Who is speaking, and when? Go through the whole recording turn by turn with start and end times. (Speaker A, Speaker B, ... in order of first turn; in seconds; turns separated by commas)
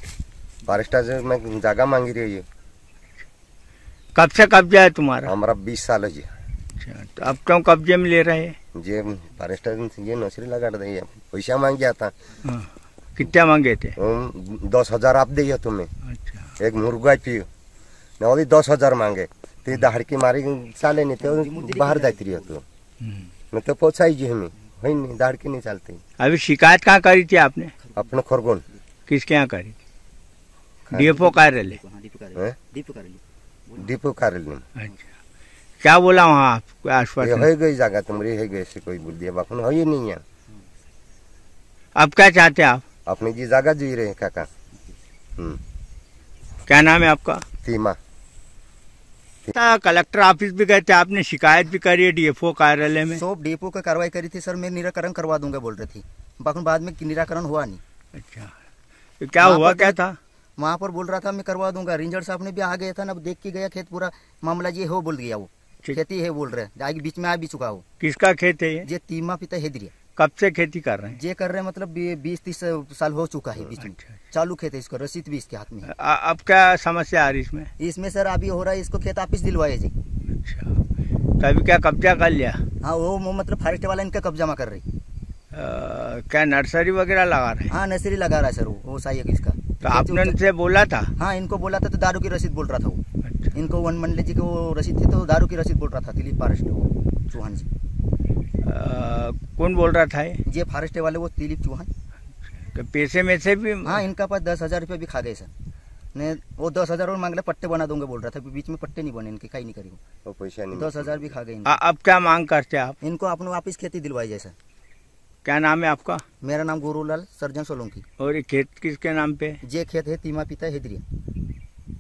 Speaker A: 0.7-2.5, Speaker B: 4.2-5.3, Speaker A: 5.2-6.3, Speaker B: 6.8-8.6, Speaker A: 8.7-12.1, Speaker B: 12.5-14.0, Speaker A: 14.0-15.9, Speaker B: 16.1-16.5, Speaker A: 16.6-17.5, Speaker A: 18.2-22.6, Speaker C: 21.2-22.5, Speaker A: 23.5-26.0, Speaker B: 26.2-27.7, Speaker C: 27.8-28.1, Speaker A: 28.0-28.6, Speaker B: 29.1-29.8, Speaker B: 30.9-31.8, Speaker C: 30.9-33.9, Speaker A: 33.8-34.6, Speaker B: 35.8-37.5, Speaker A: 37.2-40.2, Speaker B: 42.0-42.8, Speaker A: 43.1-44.5, Speaker B: 46.7-47.5, Speaker A: 47.6-48.0, Speaker B: 49.5-53.2, Speaker C: 53.1-57.8, Speaker B: 58.1-58.5, Speaker B: 59.2-60.2, Speaker C: 59.4-60.0, Speaker C: 60.6-67.8, Speaker B: 68.0-68.9, Speaker C: 68.8-69.9, Speaker B: 70.2-71.2, Speaker C: 71.1-75.9, Speaker B: 75.9-77.7, Speaker C: 77.8-79.9, Speaker B: 80.4-80.7, Speaker B: 81.4-82.6, Speaker C: 82.8-84.8, Speaker B: 85.5-87.7, Speaker C: 87.7-90.4, Speaker B: 89.8-91.1, Speaker C: 91.2-93.0, Speaker B: 93.2-93.5, Speaker C: 93.5-97.7, Speaker B: 98.6-100.4, Speaker C: 100.5-101.9, Speaker B: 102.7-104.0, Speaker C: 103.8-105.5, Speaker C: 106.1-110.0, Speaker A: 110.2-111.3, Speaker C: 110.7-111.8, Speaker B: 111.7-113.0, Speaker C: 113.0-114.5, Speaker B: 115.5-116.2, Speaker C: 116.4-118.0, Speaker B: 118.2-119.6, Speaker C: 119.6-121.0